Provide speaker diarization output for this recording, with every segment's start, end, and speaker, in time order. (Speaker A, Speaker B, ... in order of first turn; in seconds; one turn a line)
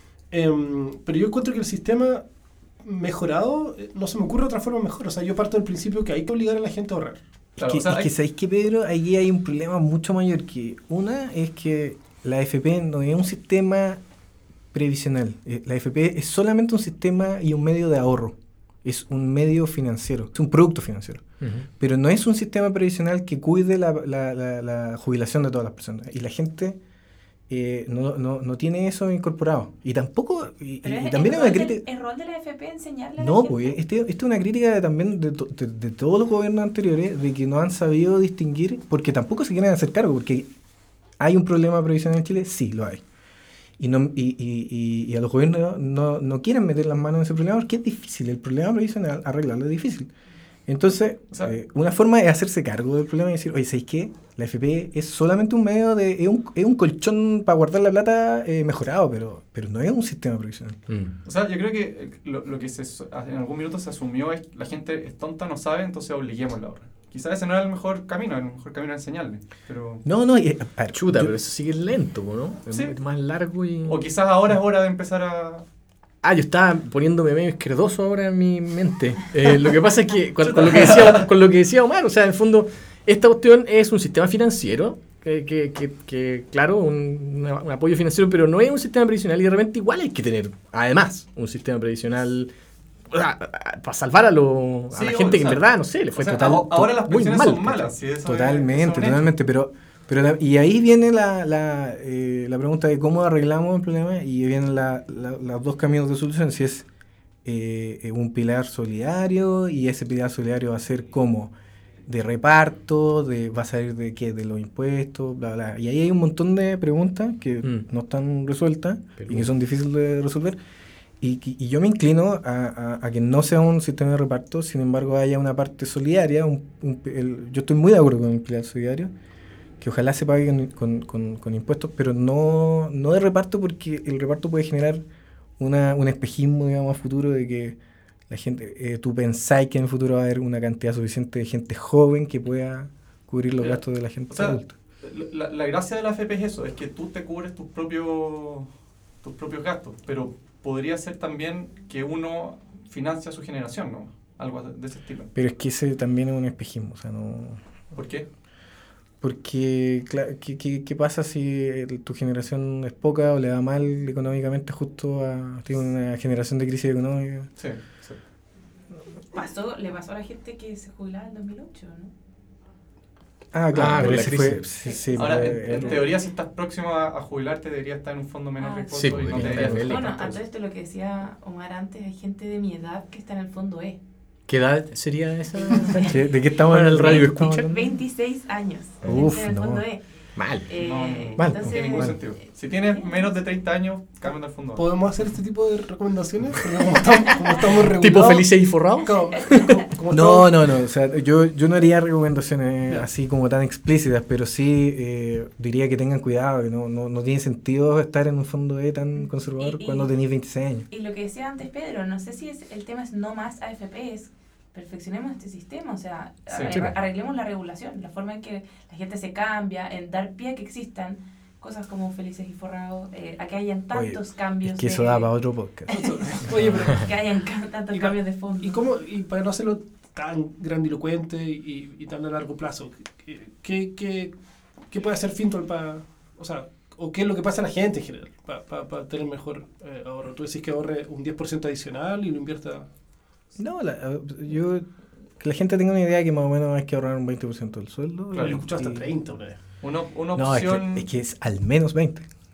Speaker A: 0.3-2.2
Speaker A: 2.8-7.2
Speaker B: 7.6-14.0
Speaker C: 7.6-8.1
Speaker B: 14.7-21.2
Speaker B: 21.8-26.8
Speaker B: 27.5-31.8
Speaker D: 30.8-33.8
Speaker B: 33.2-40.5
Speaker B: 41.2-43.0
Speaker B: 43.8-50.1
Speaker B: 50.7-60.8
Speaker C: 51.3-51.6
Speaker E: 60.9-61.1
Speaker C: 61.2-70.0
Speaker B: 70.0-71.3
Speaker E: 70.9-74.0
Speaker C: 72.7-73.0
Speaker C: 73.8-75.7
Speaker E: 76.2-92.5
Speaker C: 80.5-81.2
Speaker E: 93.1-97.9
Speaker C: 94.9-99.3
Speaker B: 98.2-106.9
Speaker B: 107.5-111.5
Speaker B: 112.1-120.6
Speaker E: 119.2-119.5
Speaker B: 121.2-129.1
Speaker B: 129.8-135.0
Speaker B: 135.6-137.8
Speaker B: 138.3-144.8
Speaker C: 143.6-155.3
Speaker B: 155.3-157.6
Speaker C: 157.9-158.3
Speaker B: 159.2-167.5
Speaker C: 167.6-168.2
Speaker D: 169.3-172.1
Speaker B: 173.5-176.1
Speaker E: 173.7-174.6
Speaker C: 175.1-180.4
Speaker D: 178.6-184.0
Speaker E: 178.9-180.1
Speaker E: 184.5-187.7
Speaker D: 185.7-186.1
Speaker B: 186.1-187.9
Speaker D: 187.1-190.1
Speaker B: 189.0-189.8
Speaker E: 190.4-190.7
Speaker D: 190.6-193.3
Speaker C: 190.8-194.9
Speaker E: 191.4-191.7
Speaker A: 194.8-200.7
Speaker E: 197.6-199.8
Speaker D: 199.1-199.6
Speaker B: 200.1-210.9
Speaker D: 209.6-210.1
Speaker D: 210.9-225.3
Speaker C: 216.5-216.8
Speaker B: 223.9-225.9
Speaker D: 225.9-226.2
Speaker A: 225.9-227.1
Speaker D: 226.9-228.8
Speaker A: 227.9-234.3
Speaker A: 234.9-242.9
Speaker B: 243.6-244.9
Speaker B: 245.4-249.1
Speaker C: 248.3-248.6
Speaker A: 248.4-249.6
Speaker C: 249.8-251.1
Speaker B: 250.4-252.2